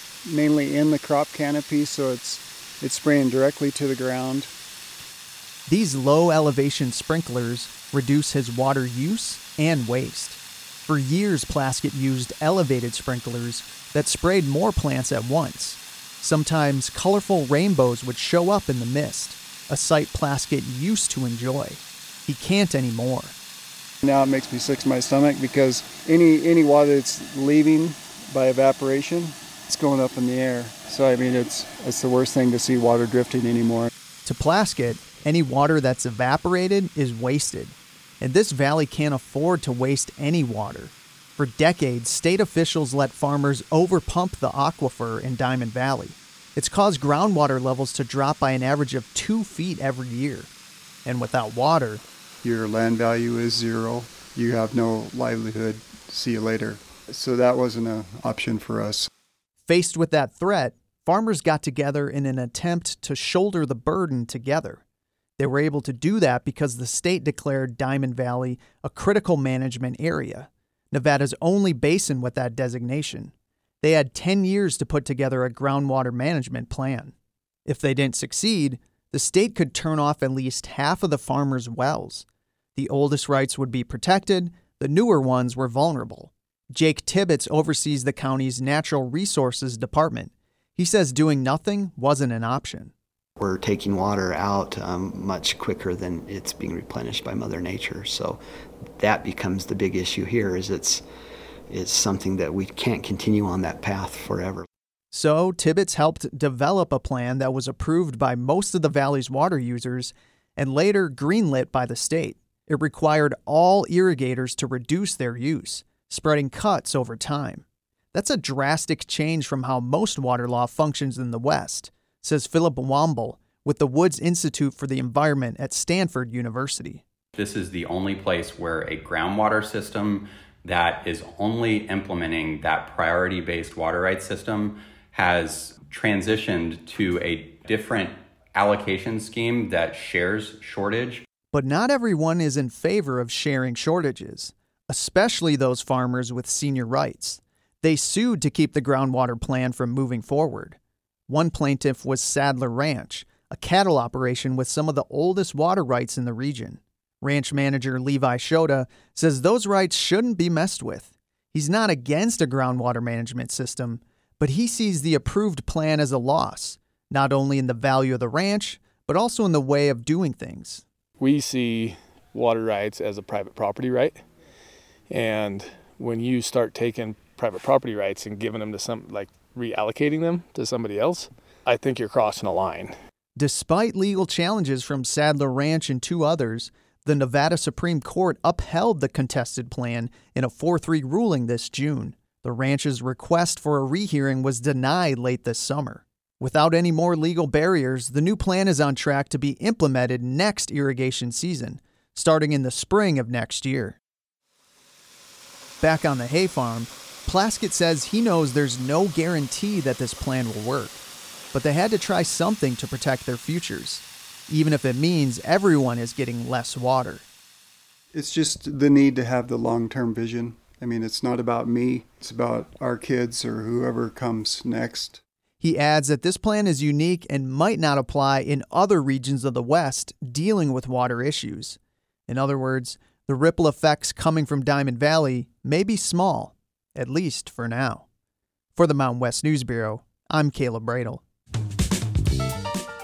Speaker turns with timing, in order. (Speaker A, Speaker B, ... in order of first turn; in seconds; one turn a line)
Speaker A: 0.2-4.5
Speaker B: 5.7-23.3
Speaker A: 24.0-33.9
Speaker B: 34.2-50.5
Speaker B: 51.0-52.0
Speaker A: 52.4-59.1
Speaker B: 59.6-64.8
Speaker B: 65.4-77.1
Speaker B: 77.7-92.9
Speaker C: 93.5-94.3
Speaker C: 95.6-96.1
Speaker C: 96.7-97.9
Speaker C: 99.0-100.8
Speaker C: 101.7-104.6
Speaker B: 105.1-127.0
Speaker D: 127.4-141.2
Speaker B: 141.5-150.8
Speaker B: 151.3-170.8
Speaker E: 171.2-174.2
Speaker E: 175.1-183.0
Speaker B: 183.3-204.0
Speaker B: 205.8-211.0
Speaker B: 211.5-217.2
Speaker A: 218.1-225.2
Speaker B: 225.6-238.0
Speaker B: 238.8-241.2